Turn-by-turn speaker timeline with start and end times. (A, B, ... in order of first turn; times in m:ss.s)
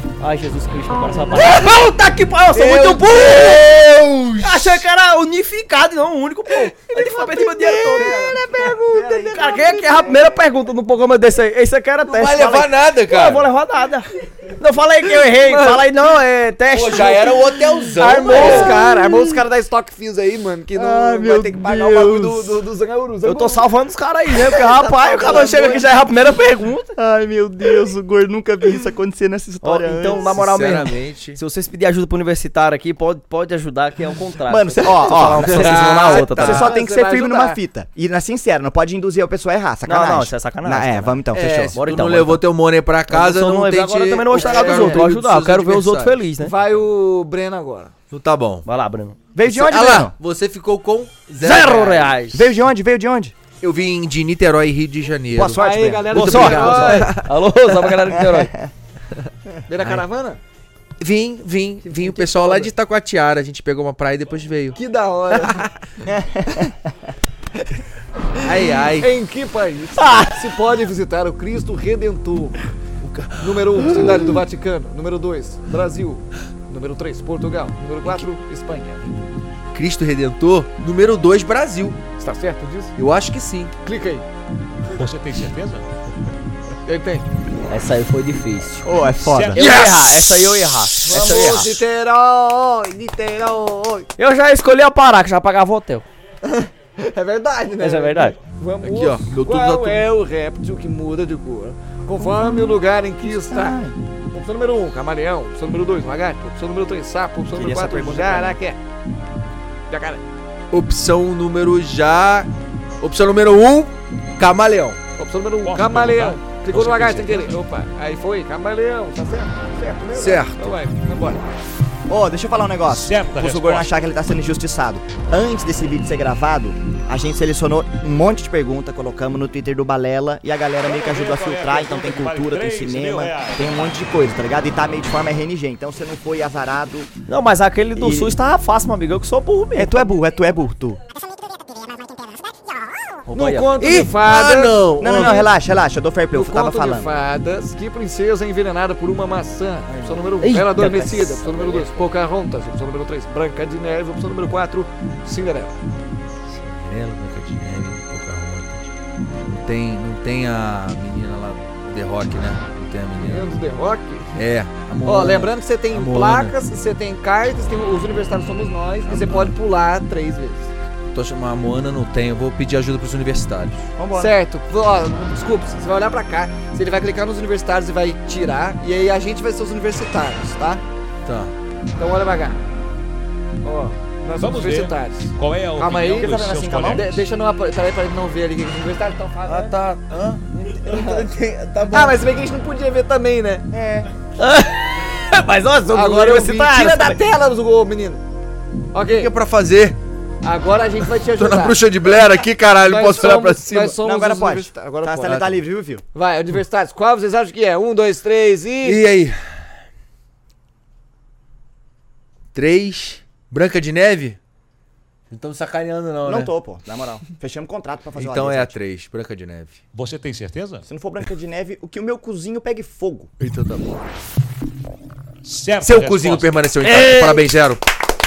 0:00.2-0:17.4 A
0:01.3-0:01.9 B
0:02.5-0:04.9 B
0:06.9-0:10.4 C
0:12.0-0:13.5 B
0:15.2-0:15.9 C
0:16.7-0:19.0 B
0:17.9-0:18.8 A
0:18.2-0:23.7 C
0:20.8-0:22.6 D
0:23.2-0:26.9 A
0:24.4-0:25.9 C
0:25.2-0:25.7 D
0:26.9-0:30.3 D
0:29.6-0:36.7 A
0:30.1-0:31.4 B
0:34.5-0:41.8 D
0:35.3-0:36.2 B
0:35.6-0:37.6 C
0:39.8-0:42.4 A
0:41.3-0:46.2 B
0:43.1-0:46.6 A
0:44.3-0:45.0 D
0:46.4-0:47.9 C
0:48.1-0:48.7 B
0:48.6-0:49.2 A
0:49.3-0:50.1 D
0:49.4-0:52.2 B
0:51.4-0:52.5 A
0:52.3-0:53.3 D
0:53.6-0:57.1 B
0:55.3-0:56.6 D
0:55.6-0:57.3 C
0:56.1-0:58.5 A
0:57.9-0:58.7 D
0:59.7-1:00.4 C
1:01.0-1:04.8 B
1:01.8-1:02.7 C
1:04.8-1:05.7 C
1:06.1-1:06.9 D
1:08.4-1:12.6 C
1:08.4-1:09.1 B
1:13.0-1:14.4 B
1:13.3-1:19.1 C
1:19.7-1:22.0 B
1:22.2-1:22.9 C
1:23.0-1:23.7 B
1:23.8-1:24.2 C
1:24.9-1:25.8 E
1:26.8-1:27.2 C
1:27.7-1:28.9 A
1:28.8-1:29.6 D
1:29.2-1:29.6 E
1:29.5-1:31.8 A
1:29.6-1:31.6 B
1:31.0-1:34.1 C
1:34.2-1:36.1 A
1:36.4-1:43.8 C
1:37.8-1:38.4 A
1:38.8-1:40.1 B
1:42.2-1:44.0 D
1:44.3-1:48.8 C
1:47.5-1:48.6 D
1:49.9-1:50.2 C
1:50.7-1:52.5 B
1:53.0-1:55.0 B
1:55.2-2:01.4 C
1:55.6-1:56.4 E
1:56.7-1:57.5 B
2:00.1-2:00.8 B
2:02.1-2:17.1 D
2:02.9-2:04.0 E
2:10.8-2:14.0 E
2:17.3-2:20.1 A
2:18.0-2:18.4 D
2:19.7-2:21.0 D
2:23.3-2:23.7 A
2:23.3-2:25.5 C
2:23.8-2:25.5 B
2:25.0-2:27.1 D
2:26.3-2:35.8 C
2:29.9-2:30.7 B
2:30.4-2:31.9 A
2:36.5-2:38.9 B
2:39.4-2:43.5 B
2:43.2-2:44.4 C
2:44.4-2:46.6 B
2:45.0-2:50.7 C
2:49.1-2:49.6 B
2:51.1-2:53.9 B
2:54.0-2:54.3 D
2:54.1-3:00.8 C
3:01.2-3:01.5 B
3:02.0-3:02.6 C
3:03.6-3:09.8 C
3:04.4-3:07.2 E
3:06.2-3:07.2 D
3:09.4-3:12.2 B
3:10.8-3:11.3 C
3:11.9-3:13.7 C
3:13.7-3:14.1 D
3:14.4-3:17.2 A
3:15.9-3:18.2 C
3:18.9-3:19.3 C
3:19.1-3:20.0 B
3:20.4-3:21.8 C
3:21.3-3:24.0 B
3:22.8-3:25.6 C
3:24.0-3:26.0 D
3:26.1-3:29.0 C
3:28.8-3:29.6 B
3:32.5-3:34.4 B
3:35.3-3:36.5 B
3:36.2-3:38.7 D
3:38.2-3:39.8 B
3:39.9-3:40.8 E
3:40.9-3:43.3 D
3:43.4-3:43.9 B
3:45.4-3:46.7 E
3:45.8-3:47.8 B
3:46.9-3:47.5 C